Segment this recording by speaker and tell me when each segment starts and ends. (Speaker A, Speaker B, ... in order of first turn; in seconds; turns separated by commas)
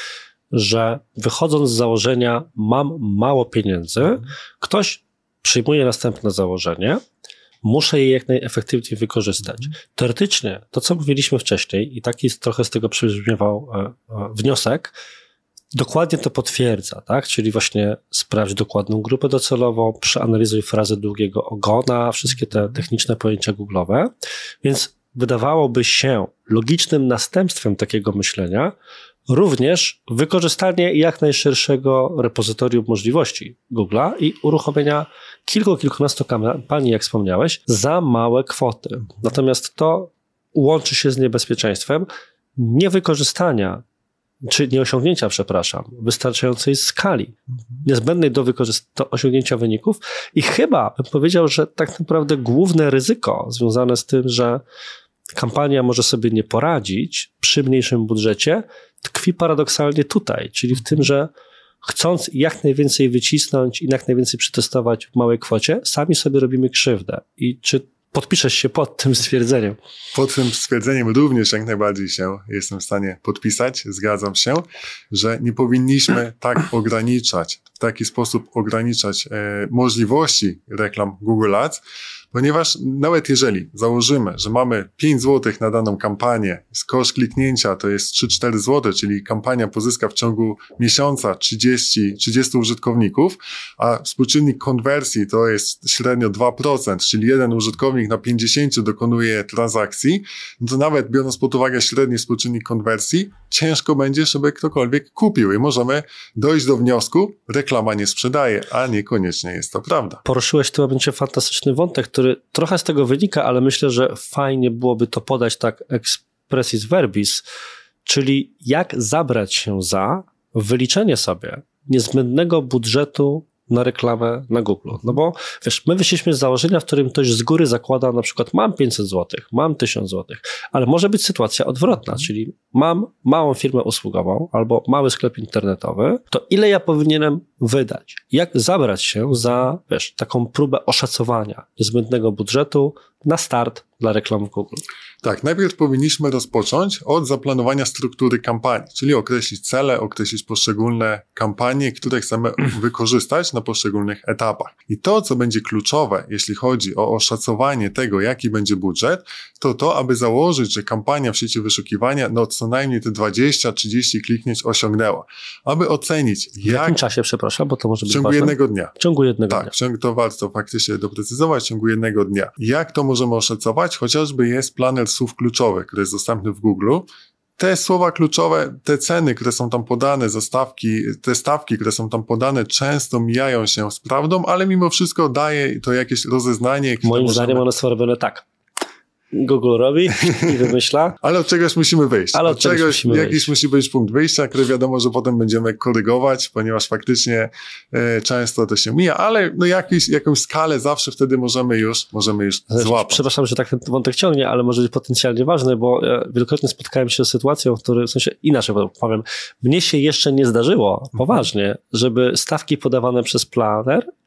Speaker A: 0.5-7.0, Speaker A: 7.6-14.9, Speaker A: 15.7-24.1, Speaker A: 24.6-28.7, Speaker A: 29.3-43.8, Speaker A: 44.4-54.6, Speaker A: 55.3-61.3, Speaker A: 61.8-69.8, Speaker B: 70.1-81.8, Speaker B: 82.3-110.2, Speaker A: 110.2-117.4, Speaker A: 118.0-144.8, Speaker B: 145.2-167.0, Speaker A: 166.6-169.7, Speaker B: 168.1-168.9, Speaker B: 169.5-177.1, Speaker B: 177.6-187.7, Speaker A: 187.0-188.4, Speaker A: 189.3-191.2, Speaker B: 191.2-203.2, Speaker A: 192.3-193.5, Speaker A: 202.7-214.1